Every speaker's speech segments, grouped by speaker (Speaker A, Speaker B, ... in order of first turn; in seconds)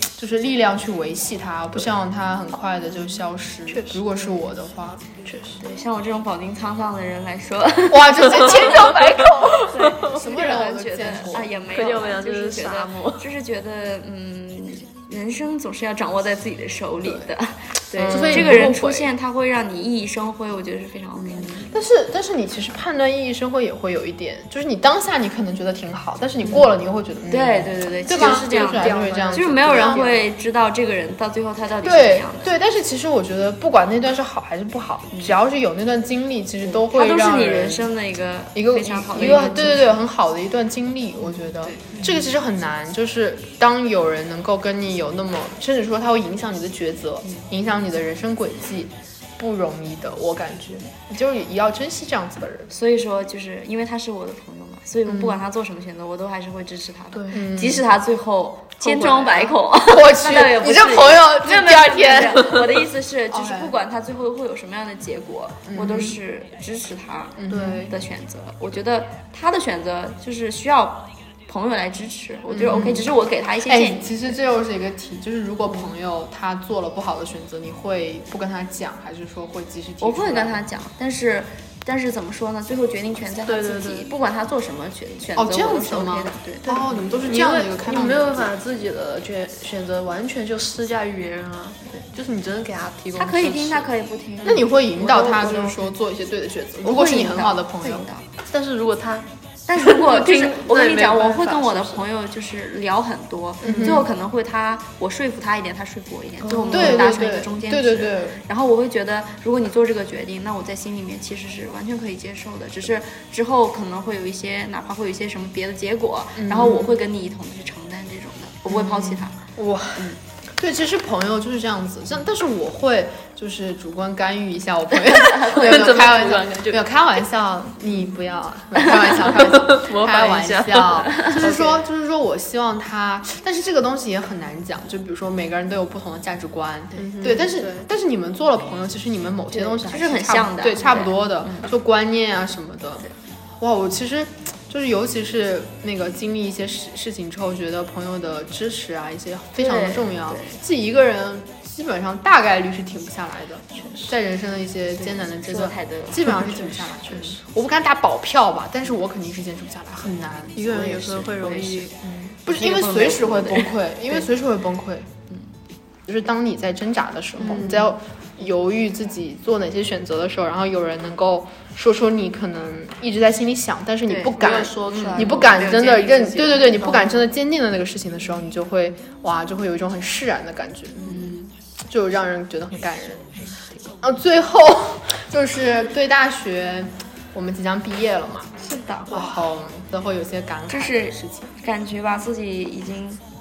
Speaker A: 0.1-5.0, 7.9-11.6, 17.9-18.8, 21.5-30.1, 31.8-37.9, 38.5-52.7, 55.1-55.4, 57.3-57.9, 58.9-62.6, 63.3-63.7, 65.7-66.2, 67.4-67.9, 72.5-73.1, 73.6-80.6, 85.3-88.5, 94.4-98.1, 103.6-104.1, 106.7-108.4, 116.4-117.0, 118.7-143.1, 143.6-165.1, 166.1-188.5, 189.1-191.5
Speaker B: 3.7-4.2, 5.2-5.6, 8.4-10.2, 11.7-13.2, 18.1-19.1, 28.1-30.2, 57.1-57.4, 58.8-59.2, 67.5-67.9, 83.5-84.1, 86.6-93.9, 98.5-102.0, 103.6-104.0, 106.4-107.1, 125.4-126.8, 129.1-131.8, 137.0-137.8, 157.1-157.3, 160.5-162.0, 162.6-163.4, 167.5-167.8, 174.4-177.2
Speaker C: 5.6-8.9, 9.7-21.7, 27.3-32.5, 36.6-40.0, 41.6-42.0, 52.7-74.3, 80.0-86.9, 93.2-95.9, 96.8-98.2, 99.7-119.3, 125.3-125.9, 139.5-141.7, 149.6-150.6, 155.0-156.6, 162.6-163.7, 174.1-175.8, 188.6-189.2, 190.7-193.2